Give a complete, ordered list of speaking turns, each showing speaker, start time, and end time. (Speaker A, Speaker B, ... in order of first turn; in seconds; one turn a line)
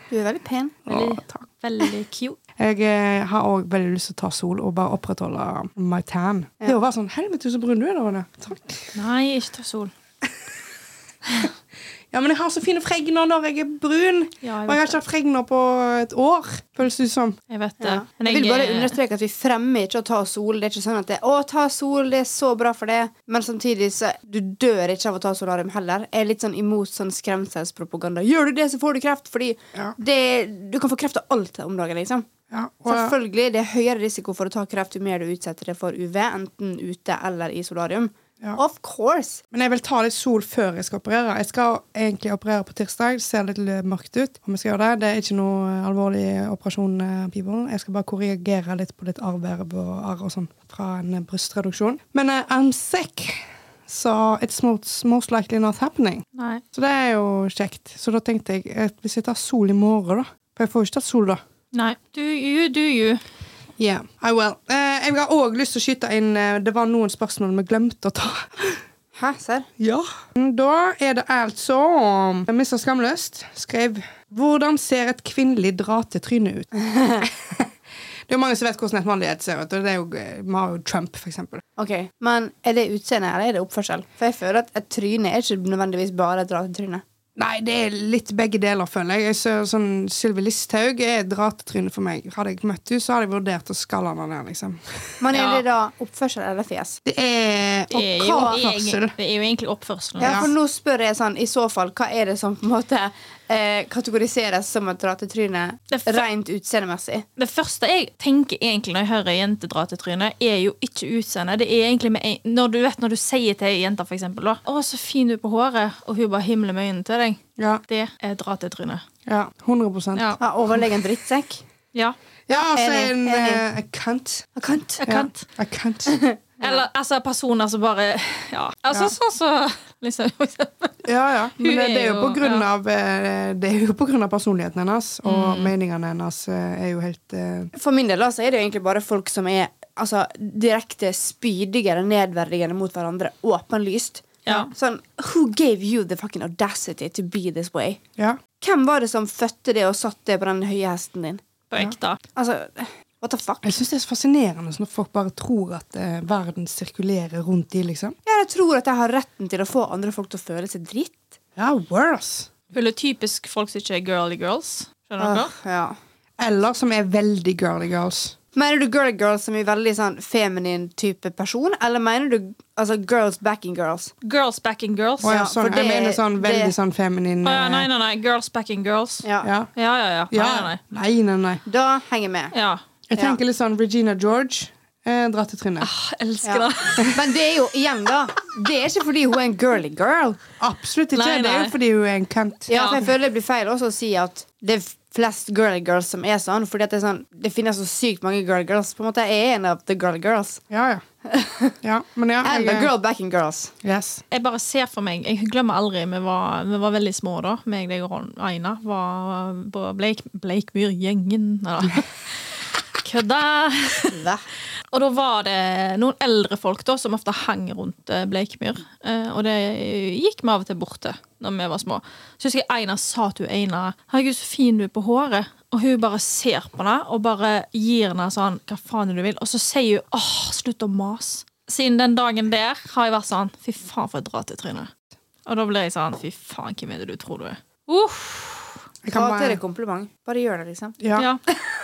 Speaker A: 0.1-0.8
Speaker B: 0.9-1.4
Speaker C: 0.9-2.4
Speaker B: 2.6-8.9
Speaker C: 8.9-9.9
Speaker B: 12.1-17.4
Speaker C: 14.4-15.0
Speaker C: 17.5-19.0
Speaker A: 17.8-32.3
Speaker B: 32.5-33.1
Speaker A: 32.9-39.4
Speaker B: 39.5-61.4
Speaker C: 56.4-56.6
Speaker C: 61.7-63.2
Speaker B: 63.8-68.8
Speaker A: 69.1-69.7
Speaker B: 69.8-76.7
Speaker A: 76.7-77.3
Speaker B: 77.2-77.7
Speaker B: 78.3-81.6
Speaker A: 81.8-87.0
Speaker B: 87.4-95.2
Speaker A: 95.2-97.0
Speaker C: 95.3-95.6
Speaker B: 97.0-99.1
Speaker C: 97.9-100.5
Speaker A: 100.2-107.2
Speaker B: 100.2-100.5
Speaker C: 105.9-106.2
Speaker C: 107.4-119.0
Speaker B: 119.3-120.4
Speaker A: 120.4-121.6
Speaker B: 122.5-124.5
Speaker A: 122.5-123.6
Speaker A: 124.6-125.0
Speaker C: 125.0-125.4
Speaker B: 125.0-126.2
Speaker A: 126.1-126.8
Speaker C: 126.6-131.0
Speaker B: 131.0-137.7
Speaker C: 131.6-132.7
Speaker C: 135.2-135.7
Speaker A: 137.8-148.0
Speaker C: 144.5-144.7
Speaker A: 148.6-151.4
Speaker C: 151.7-152.2
Speaker A: 152.3-153.8
Speaker B: 153.6-158.2
Speaker A: 158.3-161.3
Speaker B: 161.6-162.5
Speaker C: 162.7-165.5
Speaker A: 165.2-166.0
Speaker B: 166.4-168.3
Speaker A: 168.6-174.1
Speaker C: 174.2-175.4
Speaker B: 175.2-177.9
Speaker A: 175.2-176.8
Speaker C: 177.4-180.8
Speaker A: 179.2-179.5
Speaker B: 179.4-179.7
Speaker B: 180.3-181.6
Speaker A: 181.7-182.5
Speaker C: 182.5-182.8
Speaker B: 183.1-185.9
Speaker C: 185.8-187.2
Speaker A: 186.4-190.4
Speaker B: 190.6-192.7
Speaker C: 191.1-191.8
Speaker A: 192.7-200.6
Speaker C: 192.7-193.0
Speaker B: 200.7-201.0
Speaker A: 201.2-201.8
Speaker B: 201.8-202.9
Speaker A: 202.4-203.7
Speaker B: 203.8-204.2
Speaker C: 204.3-214.2
Speaker A: 214.1-214.4
Speaker C: 214.9-234.9
Speaker C: 235.5-238.8
Speaker B: 239.0-239.6
Speaker A: 239.1-241.0
Speaker B: 241.0-241.3